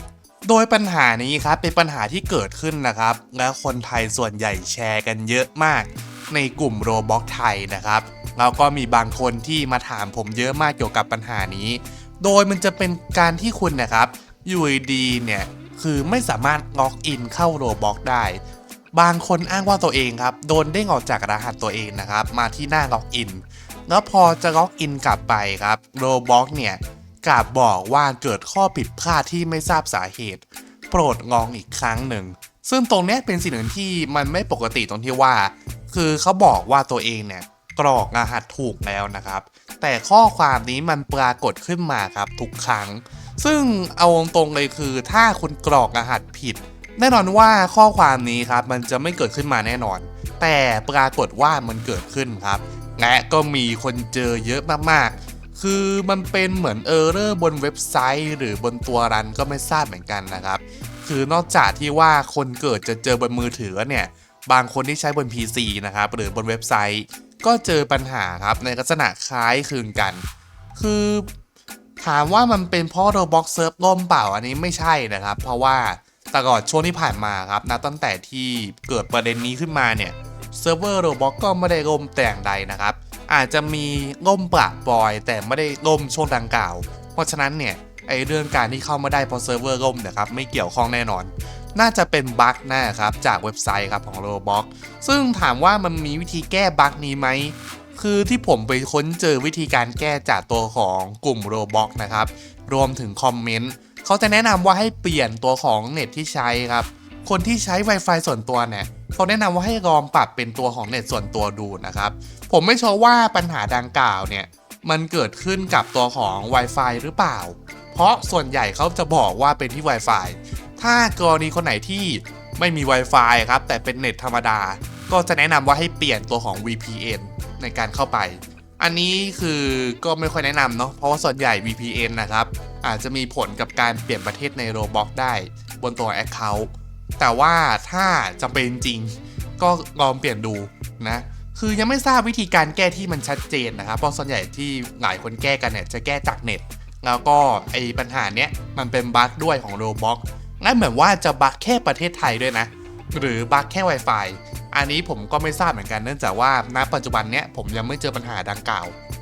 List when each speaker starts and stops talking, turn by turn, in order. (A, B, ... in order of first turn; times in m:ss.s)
0:00.4-0:18.4 A
0:18.9-1:10.2 A
1:10.8-1:11.3 A
1:12.0-2:39.0 A